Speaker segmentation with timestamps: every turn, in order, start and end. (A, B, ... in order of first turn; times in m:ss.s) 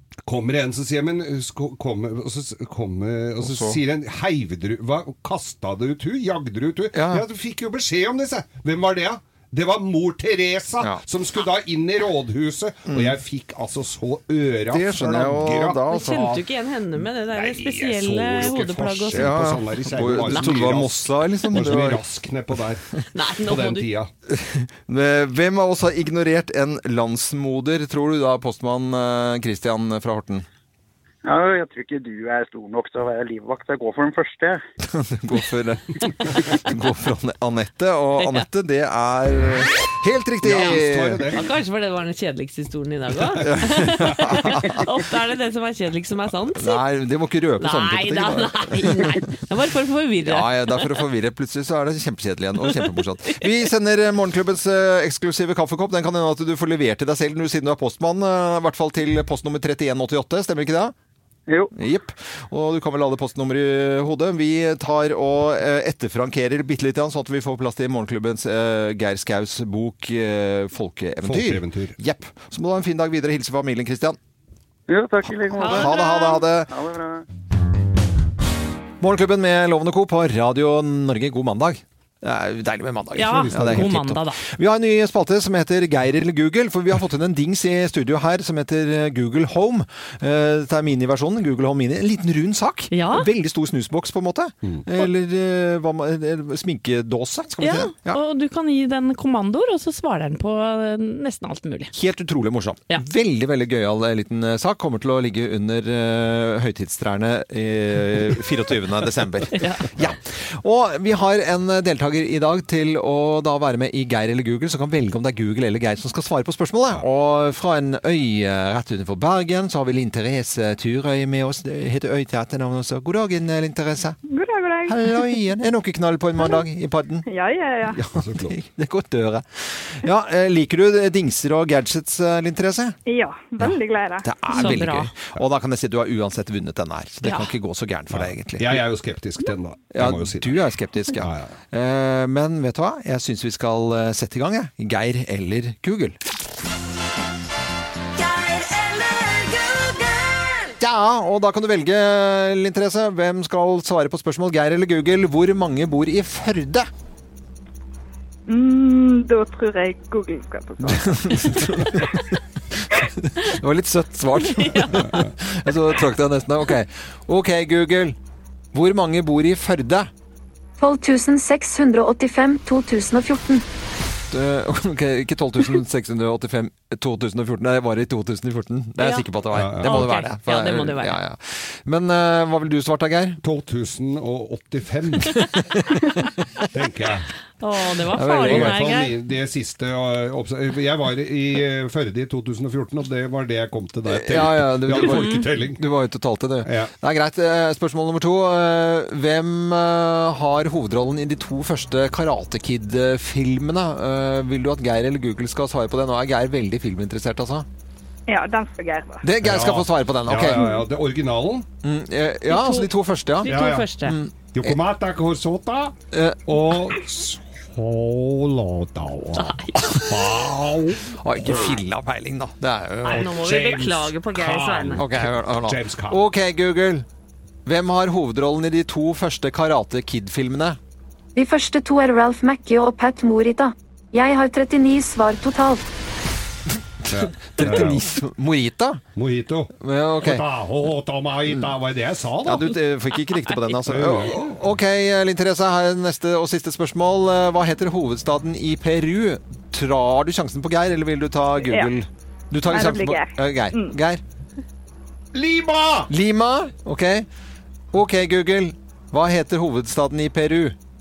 0:00.2-0:16.1 A
0:03.4-0:03.8 B
0:06.9-0:07.2 B
0:12.9-0:13.1 B
0:14.7-0:16.4 B
0:15.9-0:20.5 C
0:17.0-0:22.8 A
0:19.1-0:22.0 B
0:23.1-0:23.9 C
0:23.4-0:24.1 A
0:24.3-0:30.4 B
0:31.2-0:34.6 D
0:34.8-0:41.3 B
0:38.2-0:38.4 C
0:40.4-0:41.4 A
0:40.5-0:40.8 C
0:41.3-0:46.8 C
0:43.3-0:44.2 A
0:43.4-0:44.8 B
0:46.6-0:49.1 B
0:47.6-0:50.8 C
0:50.2-1:00.9 B
1:01.5-1:01.7 D
1:01.8-1:14.2 B
1:11.2-1:12.0 A
1:14.9-1:16.0 D
1:15.6-1:16.4 C
1:15.6-1:16.7 B
1:16.7-1:17.2 D
1:19.0-1:38.2 B
1:23.2-1:24.4 C
1:23.3-1:23.9 A
1:32.9-1:33.3 C
1:37.6-1:41.9 C
1:41.9-2:04.2 B
1:49.5-1:49.9 C
2:04.2-2:05.4 E
2:04.8-2:07.3 B
2:06.4-2:06.6 E
2:07.2-2:08.0 E
2:07.9-2:13.0 B
2:08.1-2:08.5 A
2:13.0-2:14.3 E
2:13.6-2:18.8 B
2:14.5-2:15.1 C
2:17.2-2:17.5 C
2:18.1-2:20.6 A
2:19.9-2:26.2 B
2:21.2-2:21.5 A
2:30.8-2:36.9 B
2:38.5-2:41.8 E
2:40.8-2:42.2 B
2:42.9-2:48.2 B
2:44.4-2:45.1 C
2:45.0-2:45.3 A
2:48.7-2:50.1 B
2:50.8-2:53.6 F
2:54.3-3:03.4 B
2:59.0-2:59.3 C
2:59.5-3:00.0 A
2:59.8-3:01.2 C
3:03.4-3:05.4 A
3:05.3-3:06.3 B
3:06.7-3:07.3 A
3:07.6-3:09.1 C
3:08.1-3:08.9 B
3:08.4-3:15.8 A
3:14.1-3:27.7 B
3:14.9-3:15.5 C
3:16.6-3:16.9 A
3:28.3-3:29.2 E
3:29.2-3:30.7 B
3:29.4-3:31.7 A
3:30.6-3:30.8 E
3:31.8-3:34.8 B
3:32.5-3:34.2 C
3:33.4-3:33.9 A
3:34.5-3:35.9 A
3:36.1-3:36.5 B
3:36.4-3:41.8 A
3:39.3-3:40.0 C
3:39.8-3:40.1 B
3:41.2-3:43.2 B
3:43.0-3:45.0 C
3:43.0-3:46.2 A
3:45.0-3:47.0 B
3:47.6-3:50.8 B
3:51.4-3:55.8 F
3:57.1-3:58.0 A
3:57.4-3:59.0 B
3:59.2-4:02.8 A
3:59.8-4:00.4 B
4:02.4-4:14.2 B
4:03.9-4:04.6 A
4:11.6-4:11.9 E
4:12.6-4:14.0 E
4:15.3-4:16.1 A
4:16.1-4:17.2 B
4:17.9-4:20.8 B